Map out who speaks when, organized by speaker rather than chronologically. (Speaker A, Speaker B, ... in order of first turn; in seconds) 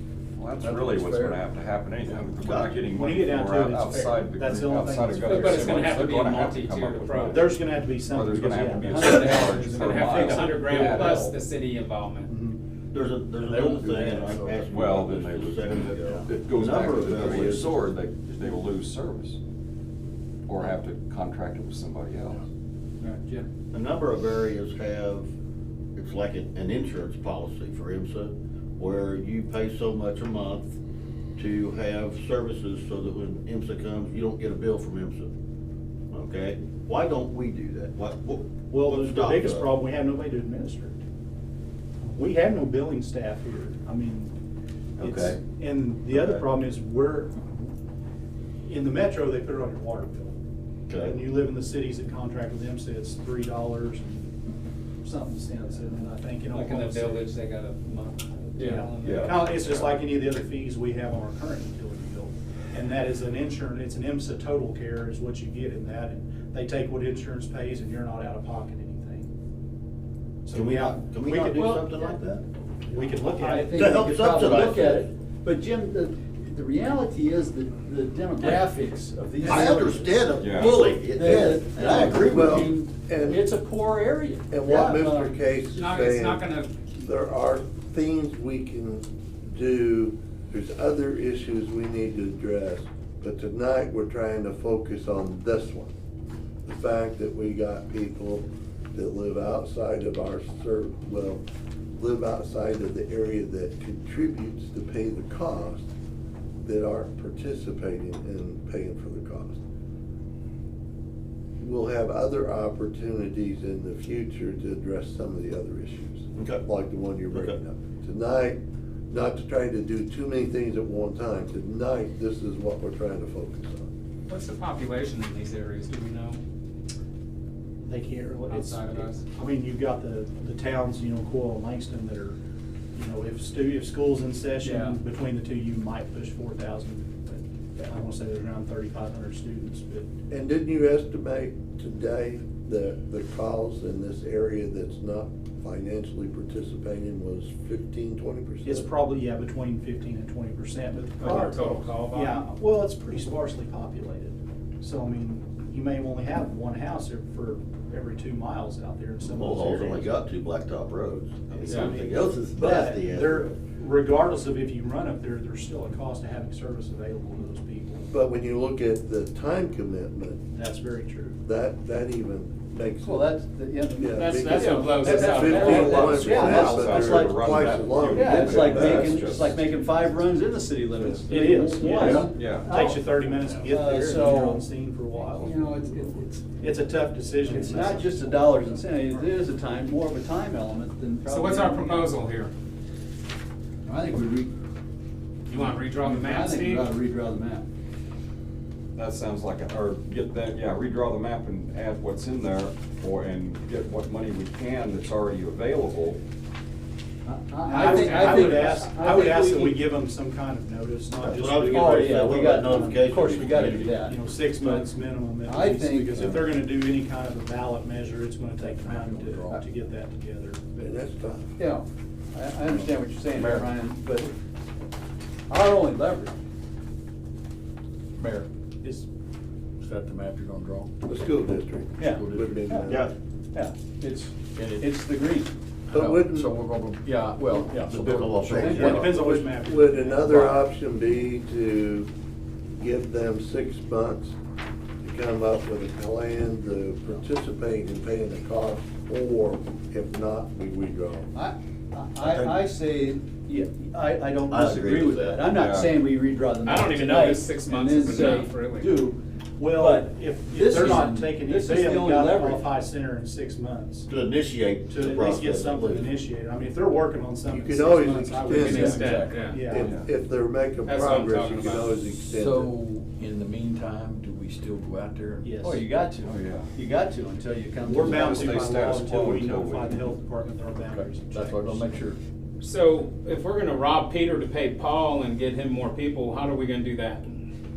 Speaker A: 0.4-11.4, 14.7-19.4, 20.5-22.4, 59.0-59.6, 80.4-80.8, 175.5-179.6, 182.2-182.7, 198.9-206.2, 255.5-256.0, 269.8-270.1, 276.2-276.7, 278.1-280.0
Speaker B: 0.6-1.4, 13.7-14.5, 218.8-219.6, 223.3-223.6, 228.2-228.5, 229.8-230.9, 232.2-232.5, 234.6-234.9, 235.9-238.9, 268.6-269.4, 272.2-275.5, 281.0-282.2
Speaker C: 2.0-3.0, 12.9-17.8, 23.7-25.3, 25.9-30.8, 31.4-35.3, 36.1-39.7, 45.0-45.4, 46.1-46.4, 50.9-51.2, 70.5-72.5, 73.8-75.1, 79.4-82.8, 116.3-116.6, 117.3-117.5, 159.3-163.6, 211.2-214.0, 232.9-233.1, 237.8-239.1, 252.2-252.6, 254.5-255.6, 264.1-266.1
Speaker D: 3.0-6.1, 7.3-11.3, 12.3-12.6, 38.7-41.0, 42.0-44.3, 45.0-47.7, 48.7-50.4, 51.0-54.3, 55.0-57.2, 58.6-69.3, 70.4-71.8, 72.8-73.8, 127.8-132.4, 132.9-140.1, 148.6-160.1, 161.5-168.1, 170.5-171.3, 181.3-185.7, 186.6-188.5, 207.7-213.0, 213.9-220.6, 238.6-240.5, 259.6-264.1, 264.9-269.9, 275.4-275.8, 277.8-281.9
Speaker E: 5.2-7.4, 9.0-12.3, 56.5-59.6, 85.7-86.7, 124.3-126.4, 128.5-129.2, 151.2-152.4, 174.1-176.3, 181.3-182.3, 185.4-186.4, 191.2-192.5, 195.5-196.9, 207.8-208.8, 256.6-259.1, 268.5-269.6, 270.8-271.9, 282.6-287.4
Speaker F: 23.0-23.5, 73.4-85.3, 134.6-134.9, 173.0-183.0, 183.6-184.7, 187.5-192.1, 193.8-194.5, 195.5-197.6, 207.2-209.8, 211.7-214.8, 215.4-216.4, 221.6-224.3, 225.5-226.3, 232.0-233.0, 233.5-235.5, 238.7-238.9, 251.3-259.2, 259.7-262.7, 268.8-269.1, 275.6-278.6
Speaker G: 81.2-81.6, 82.1-83.4, 84.5-95.9, 96.6-101.4, 102.0-105.9, 106.6-109.6, 111.6-123.9, 140.3-148.9, 168.1-170.4, 171.4-173.4, 174.0-179.2, 220.7-221.5, 231.1-233.1, 235.9-236.5, 238.7-242.1, 242.8-244.3, 245.0-251.3, 267.5-272.8